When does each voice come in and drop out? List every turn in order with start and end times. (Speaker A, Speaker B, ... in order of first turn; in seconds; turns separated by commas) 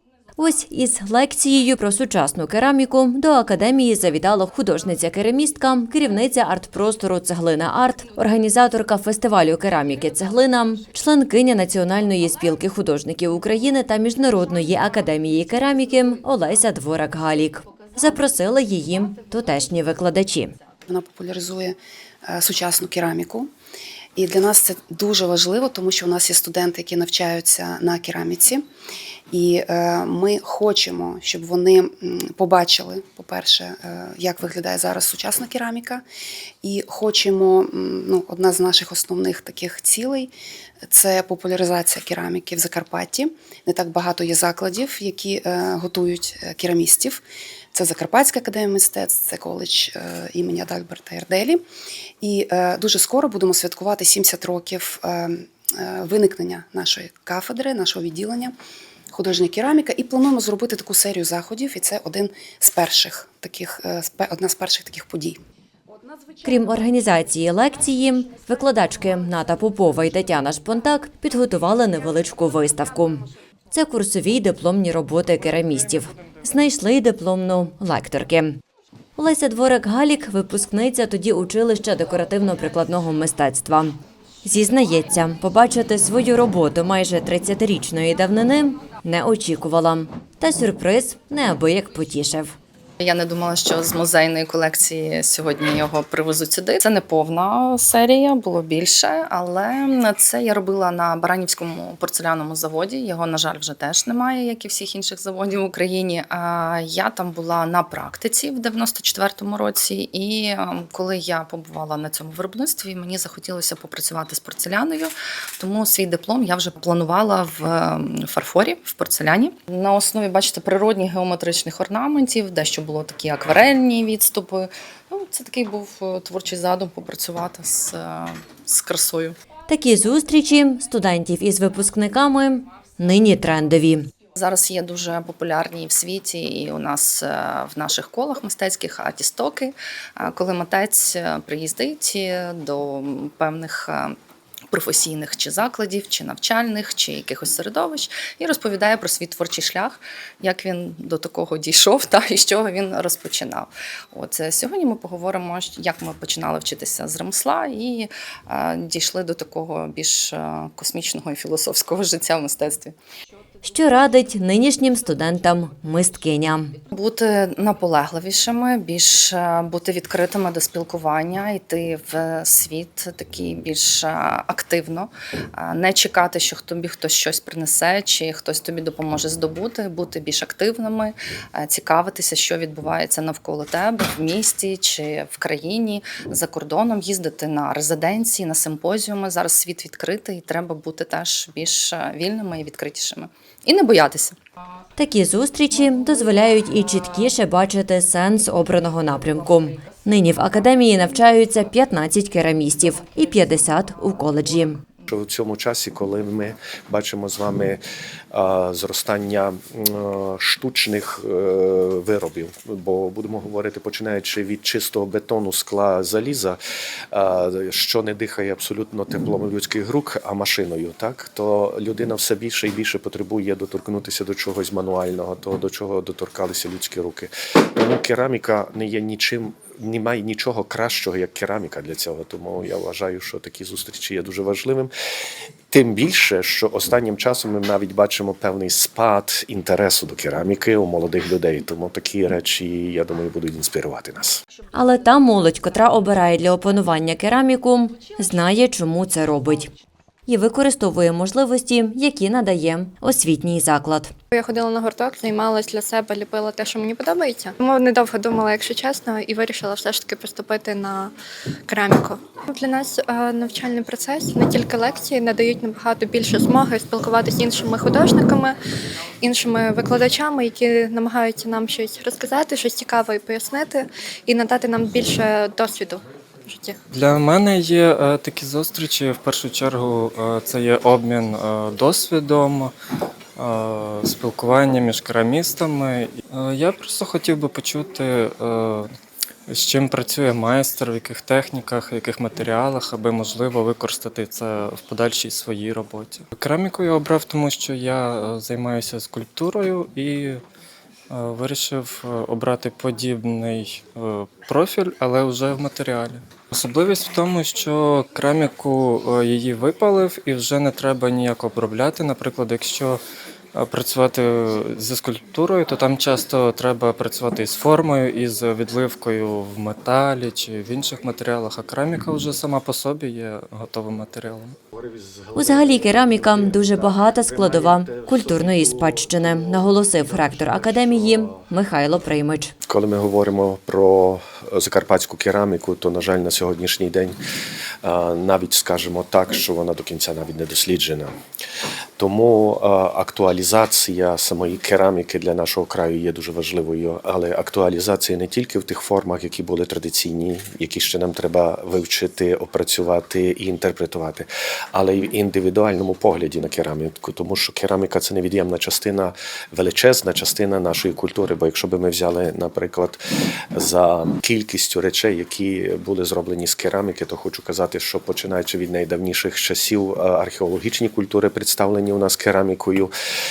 Speaker A: 0.4-20.5, Speaker B: 20.9-23.5, Speaker B: 24.2-28.6, Speaker B: 29.3-36.0, Speaker B: 36.6-40.3, Speaker B: 40.9-51.6, Speaker B: 52.2-58.5, Speaker B: 59.1-65.4, Speaker A: 66.4-78.6, Speaker A: 79.2-92.6, Speaker C: 93.0-129.4, Speaker A: 129.7-134.1, Speaker C: 134.3-144.1, Speaker C: 144.7-162.9, Speaker A: 163.6-166.7, Speaker C: 166.9-194.4, Speaker A: 195.0-204.8, Speaker D: 205.1-207.8, Speaker D: 208.3-216.6, Speaker D: 217.1-234.9, Speaker D: 235.7-244.4, Speaker A: 244.7-249.7, Speaker A: 250.3-254.1, Speaker E: 254.3-261.1, Speaker E: 261.7-268.6, Speaker E: 269.2-276.8, Speaker F: 276.9-282.7, Speaker F: 283.4-288.9, Speaker F: 289.5-300.4, Speaker F: 301.1-313.0, Speaker F: 313.5-324.6, Speaker D: 324.7-331.4, Speaker A: 325.4-332.5, Speaker D: 332.7-337.2, Speaker D: 337.8-341.1, Speaker D: 342.0-363.0, Speaker D: 363.5-372.9